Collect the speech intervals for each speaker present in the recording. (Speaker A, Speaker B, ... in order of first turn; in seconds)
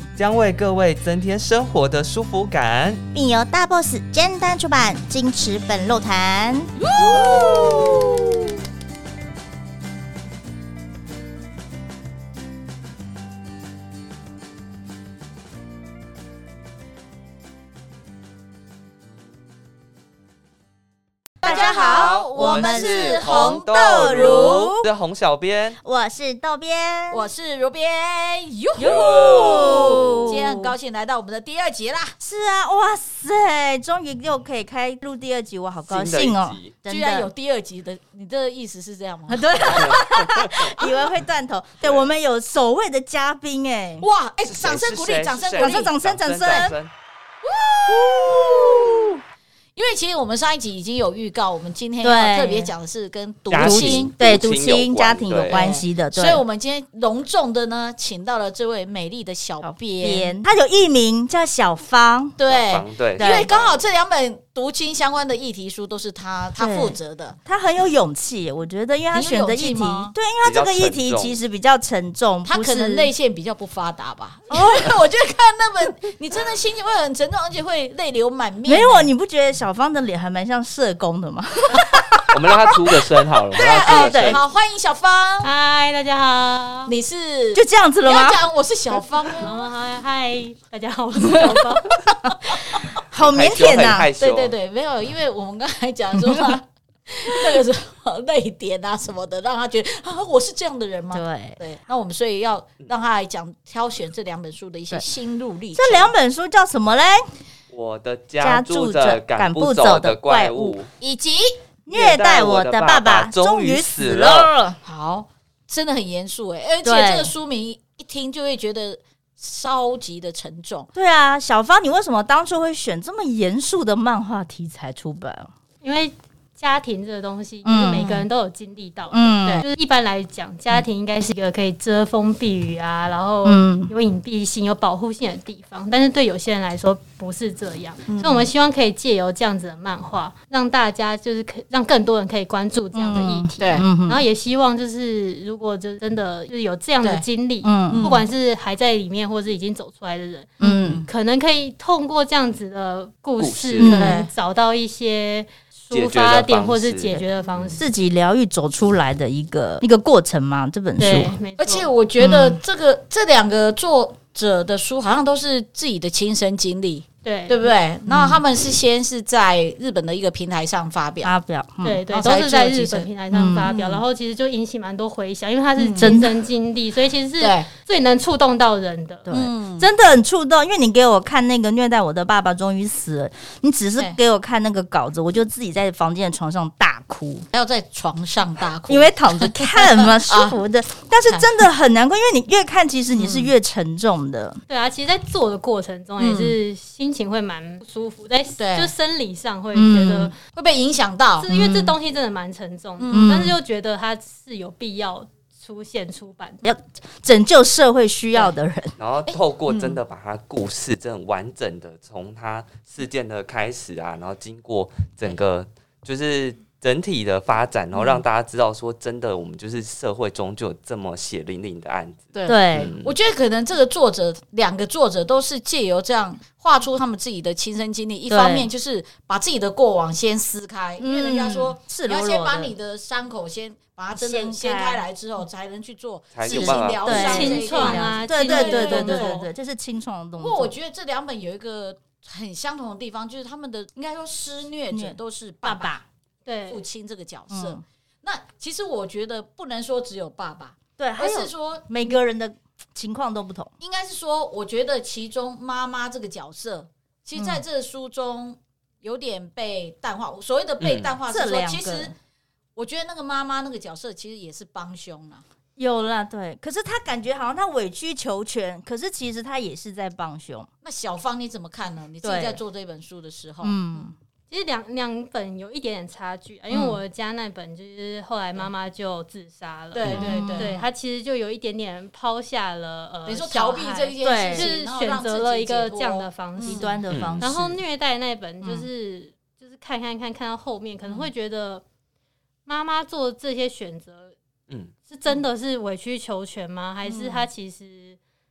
Speaker A: 0.2-3.0, 21.4-25.8, 28.8-30.4, 35.9-36.8, 39.6-40.6, 41.8-42.1, 44.4-46.9, 53.5-55.7, 62.4-63.8, 70.4-71.4, 82.3-84.4, 93.1-94.5, 107.7-110.9, 111.9-114.5, 153.4-154.0, 155.9-157.8, 209.0-223.1, 236.3-237.6, 260.8-261.1, 287.1-287.5
Speaker B: 3.1-8.2, 21.4-24.9, 25.8-27.3, 28.8-30.7, 32.2-37.3, 39.3-44.1, 45.4-46.7, 47.9-49.2, 52.0-52.7, 53.5-56.4, 59.6-62.4, 63.1-63.5, 66.6-73.1, 74.5-74.9, 78.6-82.6, 83.5-84.4, 87.5-88.4, 92.2-92.6, 93.1-94.1, 101.1-101.6, 105.7-107.3, 108.4-110.8, 111.8-114.8, 116.8-117.3, 120.9-125.5, 127.6-128.1, 129.1-129.6, 133.4-133.9, 142.9-144.2, 147.6-148.1, 150.6-151.1, 153.8-154.2, 157.8-161.3, 162.2-162.6, 168.1-168.4, 171.2-172.0, 173.3-173.7, 176.0-176.3, 179.2-187.4, 188.9-194.6, 199.7-200.3, 201.5-201.9, 203.1-203.6, 206.6-209.0, 222.5-222.9, 228.3-228.7, 231.0-232.7, 234.1-235.1, 236.4-240.7, 244.9-246.0, 247.5-247.8, 251.0-253.7, 261.3-262.1, 265.8-270.7, 272.2-272.6, 273.6-274.1, 276.7-277.0, 280.1-280.8, 284.2-284.7, 286.6-287.8, 288.6-288.9
Speaker C: 6.8-8.2, 21.4-24.6, 27.1-32.2, 36.9-40.0, 44.0-46.7, 47.4-49.1, 49.8-54.1, 55.5-60.4, 62.4-67.4, 69.1-70.1, 72.4-79.1, 83.5-85.5, 86.9-89.7, 93.9-106.1, 111.0-111.6, 114.8-120.9, 127.9-128.2, 138.1-138.5, 143.2-143.9, 147.9-148.3, 150.6-151.1, 153.9-154.3, 161.6-171.3, 172.1-173.1, 173.7-174.0, 175.8-176.2, 177.4-177.7, 179.3-179.9, 187.5-190.6, 193.1-193.5, 196.2-196.6, 198.6-198.9, 200.5-201.7, 203.0-203.4, 209.3-210.0, 217.9-218.2, 222.3-239.4, 240.4-246.0, 246.7-252.2, 253.8-262.1, 262.8-265.4, 270.8-273.8, 279.9-280.8, 283.2-286.9, 291.0-291.3, 297.0-297.5
Speaker D: 85.4-86.9, 89.4-92.0, 125.8-150.5, 151.1-157.8, 161.0-161.9, 167.2-167.7, 171.8-179.3, 194.7-200.3, 201.4-206.6, 237.1-239.5, 246.4-246.8, 274.5-291.8, 292.6-294.3, 295.1-298.2